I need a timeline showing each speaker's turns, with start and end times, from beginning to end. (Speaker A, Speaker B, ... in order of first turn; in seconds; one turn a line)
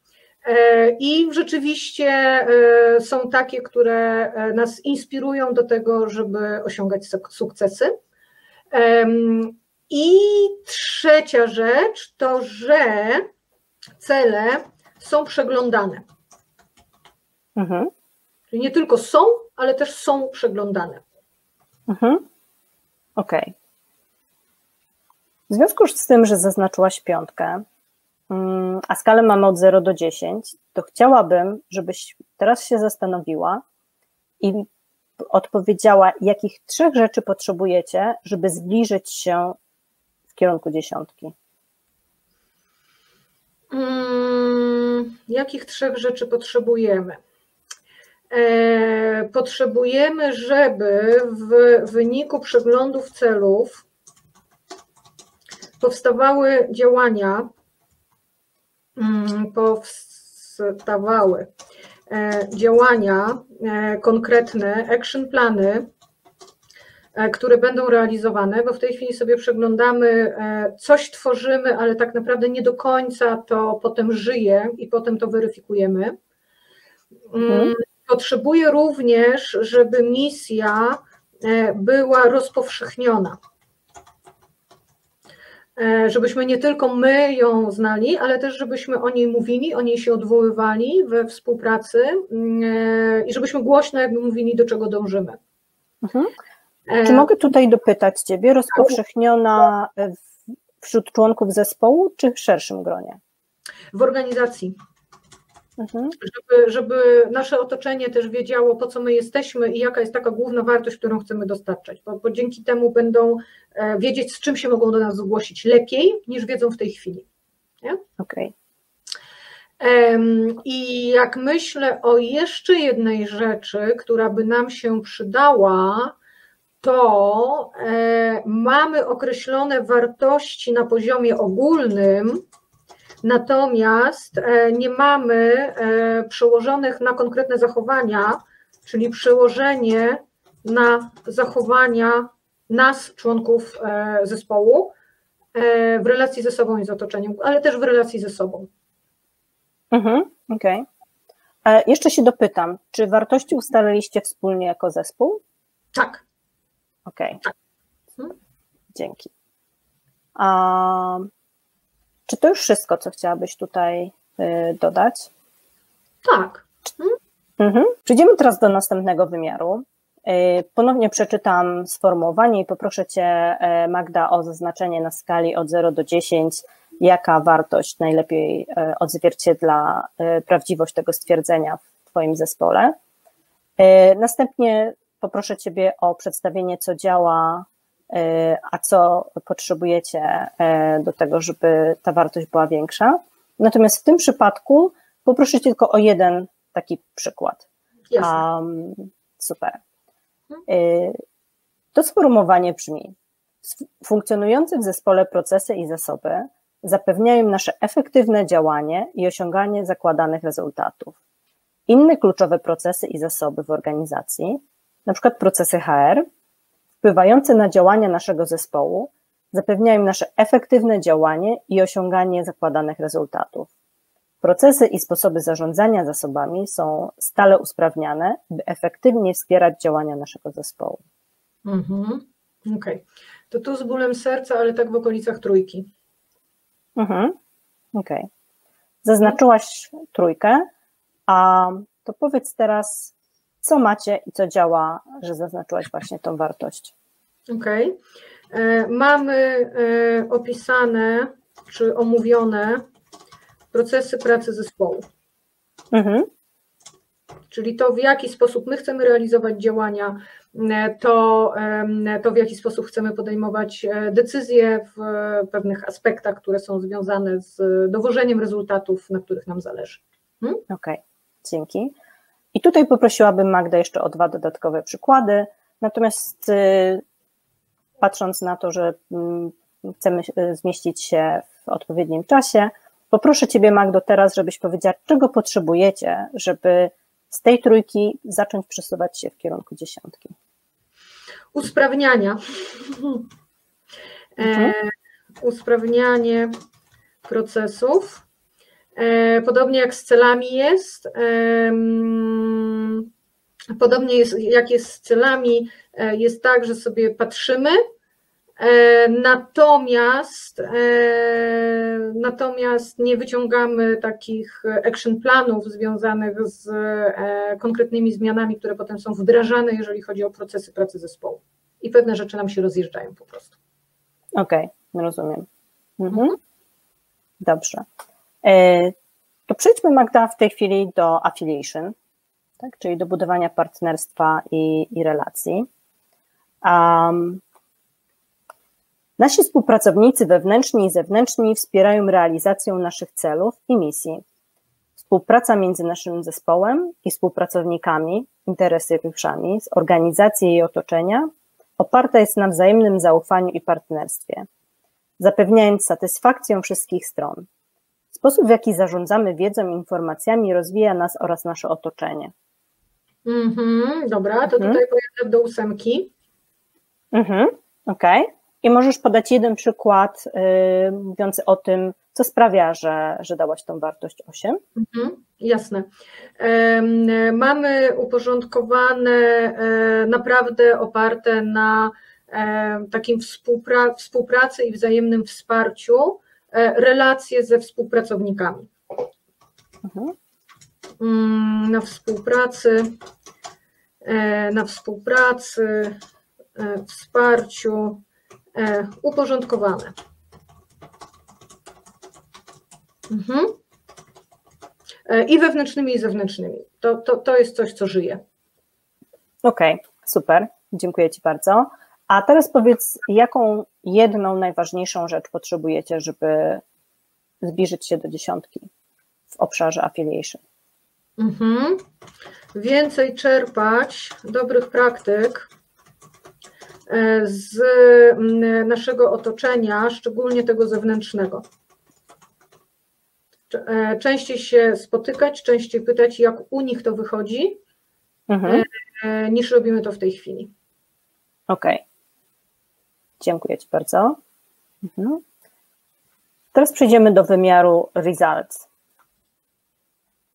Speaker A: 0.4-7.9
Speaker A: 8.7-13.3
Speaker A: 14.0-16.0
Speaker B: 17.6-17.9
Speaker A: 18.5-21.0
Speaker B: 21.9-22.2
Speaker B: 23.1-23.5
Speaker B: 25.5-27.6
Speaker B: 28.3-33.6
Speaker B: 34.4-34.6
Speaker B: 35.2-39.6
Speaker B: 40.3-41.3
Speaker A: 43.7-47.2
Speaker A: 48.3-53.8
Speaker A: 55.8-57.5
Speaker A: 59.0-61.5
Speaker A: 62.1-65.9
Speaker A: 67.1-76.1
Speaker A: 77.3-83.4
Speaker B: 77.5-77.7
Speaker A: 85.8-95.4
Speaker B: 96.0-96.3
Speaker A: 96.9-97.3
Speaker B: 97.0-100.2
Speaker B: 100.8-103.2
Speaker A: 103.9-104.8
Speaker B: 105.8-106.2
Speaker A: 106.2-117.2
Speaker B: 118.2-118.5
Speaker A: 119.8-126.1
Speaker A: 126.8-132.4
Speaker A: 133.2-144.9
Speaker A: 145.5-148.7
Speaker B: 149.9-150.8
Speaker B: 151.6-155.4
Speaker A: 155.9-156.2
Speaker B: 157.1-157.4
Speaker B: 158.9-159.3
Speaker B: 160.3-161.3
Speaker B: 162.3-165.3
Speaker A: 166.2-167.2
Speaker B: 167.6-182.9
Speaker B: 183.8-197.7
Speaker A: 198.1-198.4
Speaker B: 198.2-199.8
Speaker B: 200.7-201.2
Speaker B: 201.9-211.2
Speaker B: 211.9-216.2
Speaker B: 217.0-223.7
Speaker B: 224.4-231.0
Speaker A: 231.6-235.9
Speaker B: 236.9-237.3
Speaker B: 237.9-238.3
Speaker B: 239.0-240.7
Speaker B: 241.3-246.9
Speaker A: 247.5-248.0
Speaker A: 248.5-252.8
Speaker A: 253.7-255.0
Speaker B: 255.9-256.3
Speaker A: 257.5-270.6
Speaker B: 270.7-271.9
Speaker B: 272.5-277.0
Speaker B: 278.0-290.3
Speaker A: 291.5-293.2
Speaker A: 294.4-296.5
Speaker B: 294.4-294.7
Speaker A: 297.2-298.2
Speaker A: 298.9-303.1
Speaker A: 303.8-307.8
Speaker A: 308.6-323.6
Speaker B: 324.4-325.5
Speaker B: 326.0-326.4
Speaker B: 327.4-327.9
Speaker B: 328.4-328.9
Speaker B: 329.5-331.9
Speaker B: 332.6-335.7
Speaker B: 336.6-337.4
Speaker B: 339.2-344.2
Speaker B: 345.0-354.5
Speaker B: 355.2-357.4
Speaker B: 358.1-362.3
Speaker A: 363.2-366.1
Speaker B: 364.5-364.8
Speaker B: 367.1-374.6
Speaker A: 374.8-388.7
Speaker B: 389.8-390.1
Speaker A: 391.0-392.9
Speaker A: 394.0-396.0
Speaker A: 396.6-398.0
Speaker A: 398.5-399.9
Speaker A: 403.1-403.6
Speaker A: 405.1-408.2
Speaker B: 409.4-416.6
Speaker B: 417.4-418.7
Speaker B: 419.3-420.4
Speaker A: 421.2-421.8
Speaker A: 422.5-425.5
Speaker A: 426.9-431.4
Speaker A: 433.5-437.6
Speaker B: 438.3-438.6
Speaker A: 438.4-440.5
Speaker B: 441.5-441.8
Speaker B: 443.2-444.2
Speaker B: 444.8-445.2
Speaker B: 446.5-448.7